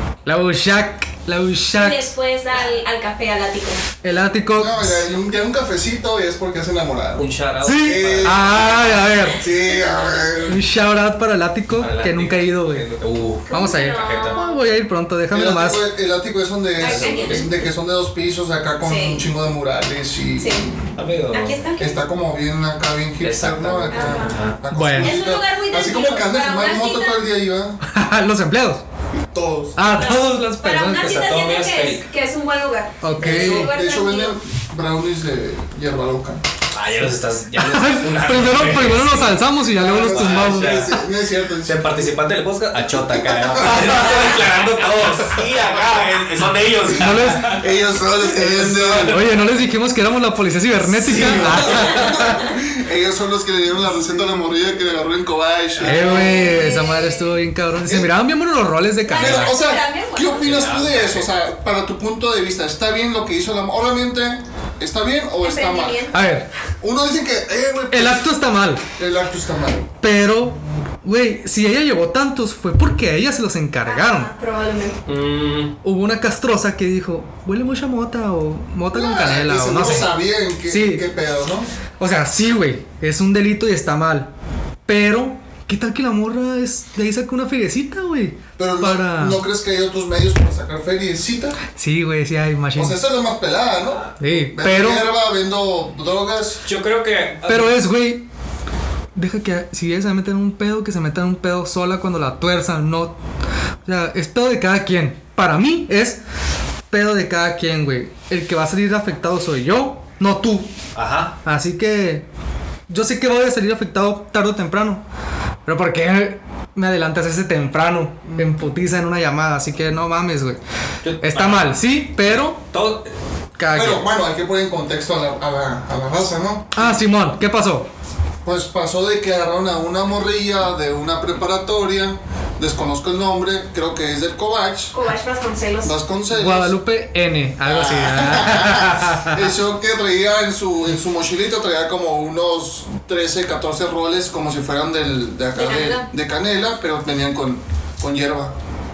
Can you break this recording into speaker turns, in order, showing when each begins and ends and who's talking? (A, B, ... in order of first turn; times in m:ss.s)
0:00.3-0:02.1 A
0:01.7-0:03.8 B
0:04.0-0:05.1 A
0:04.6-0:07.2 C
0:07.2-0:08.8 D
0:07.6-0:09.4 A
0:07.8-0:10.6 C
0:10.5-0:12.9 A
0:11.8-0:14.4 D
0:13.5-0:14.6 B
0:13.5-0:15.9 A
0:15.3-0:20.9 C
0:16.8-0:17.5 D
0:16.8-0:17.6 B
0:18.8-0:19.2 B
0:20.4-0:20.7 B
0:21.0-0:21.6 D
0:21.3-0:22.0 B
0:21.8-0:27.8 C
0:23.2-0:24.6 D
0:23.9-0:24.4 B
0:24.7-0:25.2 A
0:25.0-0:27.2 B
0:27.8-0:28.8 A
0:29.3-0:29.8 C
0:29.8-0:31.2 A
0:29.9-0:34.4 B
0:31.0-0:32.1 D
0:33.0-0:33.7 A
0:33.2-0:36.4 C
0:36.7-0:41.0 D
0:37.6-0:41.0 A
0:39.7-0:41.9 C
0:41.6-0:47.6 D
0:43.1-0:44.3 C
0:46.9-0:47.6 A
0:47.5-0:49.3 C
0:48.4-0:49.2 D
0:48.5-0:52.4 A
0:50.9-0:56.7 C
0:51.1-0:51.7 D
0:55.8-0:59.6 A
0:55.9-0:57.4 B
0:59.1-1:00.5 B
0:59.1-1:06.0 C
1:00.4-1:01.3 D
1:05.4-1:06.2 B
1:06.1-1:06.5 A
1:06.8-1:08.3 C
1:07.9-1:08.8 A
1:09.0-1:09.9 C
1:10.0-1:14.3 A
1:13.8-1:15.0 B
1:15.1-1:15.8 D
1:15.8-1:20.1 A
1:18.9-1:21.7 C
1:19.8-1:20.1 D
1:20.7-1:21.0 A
1:22.0-1:24.3 A
1:24.9-1:29.4 A
1:28.6-1:31.6 C
1:31.8-1:33.0 A
1:32.8-1:36.6 C
1:33.9-1:34.2 D
1:34.2-1:35.1 A
1:36.7-1:37.8 D
1:37.5-1:38.3 A
1:39.2-1:43.2 A
1:43.8-1:46.2 A
1:46.9-1:50.7 A
1:51.0-1:51.4 D
1:51.4-1:52.3 A
1:52.9-1:55.0 A
1:55.7-2:00.6 A
1:58.3-1:58.6 C
2:01.0-2:01.8 D
2:01.2-2:02.6 A
2:02.3-2:03.1 D
2:03.6-2:04.1 A
2:03.7-2:07.0 C
2:06.7-2:07.9 A
2:08.4-2:15.0 C
2:14.9-2:15.9 B
2:15.8-2:16.7 C
2:16.3-2:19.4 A
2:17.6-2:28.5 C
2:25.5-2:26.1 B